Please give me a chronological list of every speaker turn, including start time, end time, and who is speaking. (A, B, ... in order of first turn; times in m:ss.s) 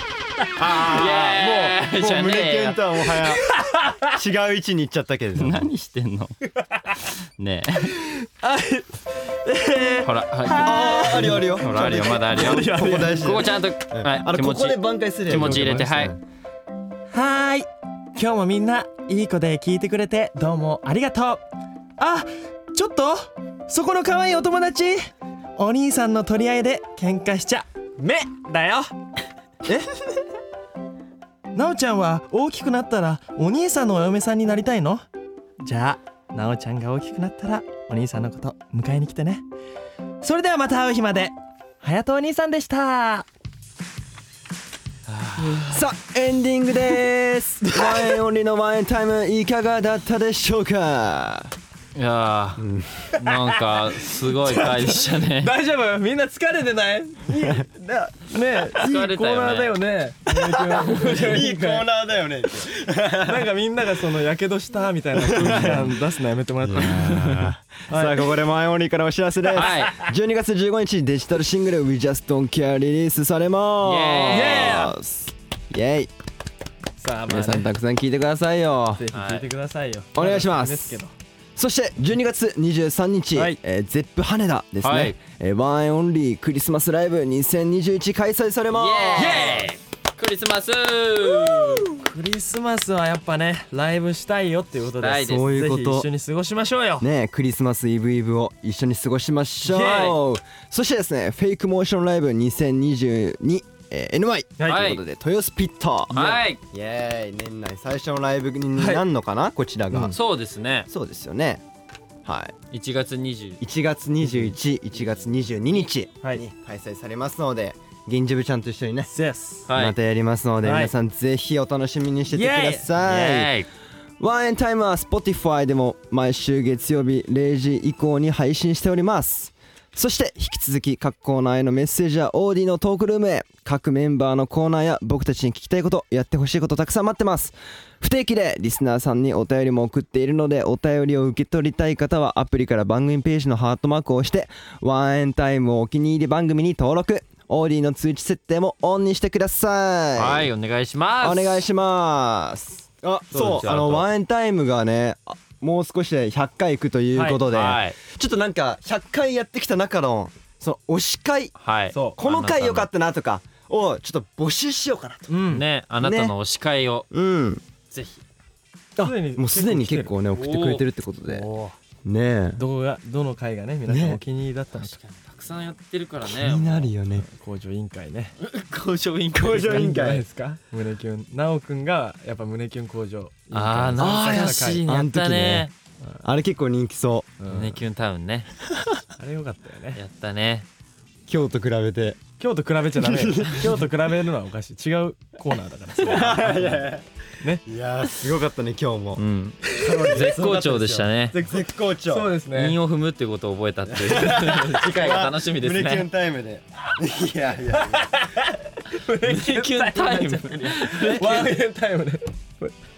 0:00.6-0:03.5 A
0:00.8-0:02.8 B
0:03.3-0:04.1 C
0:04.1-0:05.6 A
0:05.4-0:06.3 B
0:06.6-0:07.0 C
0:07.0-0:08.0 B
0:07.9-0:11.6 C
0:10.0-0:16.1 B
0:10.5-0:16.2 A
0:12.3-0:13.4 C
0:15.3-0:15.9 C
0:17.1-0:21.4 C
0:22.0-0:28.9 C
0:31.5-0:35.0 C
0:35.6-0:39.4 C
0:40.2-0:43.3 C
0:45.1-0:45.8 B
0:45.4-0:45.6 C
0:45.7-0:51.5 A
0:47.6-0:48.2 C
0:51.9-0:55.5 B
0:52.6-0:53.2 A
0:53.5-1:01.8 C
0:57.4-0:57.6 A
0:58.7-0:59.8 B
1:00.3-1:03.5 A
1:03.2-1:08.3 C
1:05.1-1:06.0 A
1:06.6-1:16.1 A
1:09.5-1:10.0 B
1:09.6-1:10.1 C
1:13.8-1:14.7 B
1:14.3-1:15.0 C
1:17.0-1:17.7 C
1:17.3-1:19.0 A
1:19.0-1:21.1 C
1:19.1-1:19.5 B
1:20.1-1:21.0 A
1:21.6-1:29.6 A
1:23.3-1:23.6 C
1:24.8-1:25.2 B
1:28.7-1:31.9 B
1:29.2-1:29.7 C
1:31.5-1:31.8 A
1:32.0-1:37.1 C
1:35.0-1:35.5 B
1:35.2-1:36.1 A
1:37.0-1:50.2 A
1:39.6-1:40.2 C
1:44.6-1:44.9 C
1:44.6-1:45.0 B
1:46.1-1:46.6 B
1:48.8-1:49.0 C
1:50.1-1:50.9 B
1:50.9-1:51.6 A
1:52.2-1:52.5 A
1:52.7-1:53.6 B
1:53.6-1:59.1 A
1:59.1-1:59.7 C
1:59.7-2:00.0 B
1:59.7-2:03.5 A
2:00.6-2:00.9 C
2:02.3-2:02.9 C
2:03.0-2:03.7 B
2:04.2-2:30.5 A
2:30.2-2:31.6 B
2:31.2-2:45.3 A
2:33.3-2:34.1 B
2:37.1-2:37.4 C
2:37.5-2:38.0 B
2:41.6-2:42.9 B
2:41.9-2:42.2 C
2:45.3-2:45.6 C
2:45.5-2:47.1 B
2:46.0-2:46.3 A
2:47.1-2:47.6 A
2:47.9-2:48.2 B
2:49.0-2:51.5 A
2:49.0-2:50.1 C
2:50.3-2:51.7 B
2:52.0-2:52.6 A
2:52.5-2:55.0 C
2:53.9-2:54.2 A
2:54.7-2:56.9 B
2:56.2-2:57.3 A
2:57.1-2:58.4 C
2:58.4-2:59.8 B
2:59.3-3:00.3 A
2:59.5-3:04.8 C
3:03.5-3:05.7 B
3:04.0-3:05.7 A
3:06.2-3:07.3 A
3:07.4-3:07.8 C
3:07.5-3:08.5 B
3:09.2-3:10.0 C
3:10.0-3:10.7 B
3:11.3-3:12.2 A
3:12.4-3:17.6 C
3:13.0-3:13.9 A
3:16.0-3:17.1 A
3:17.6-3:22.4 A
3:19.2-3:21.4 B
3:19.6-3:20.2 C
3:21.3-3:22.8 C
3:22.5-3:26.1 B
3:23.9-3:28.1 A
3:24.1-3:25.2 C
3:27.7-3:32.7 C
3:29.1-3:31.5 B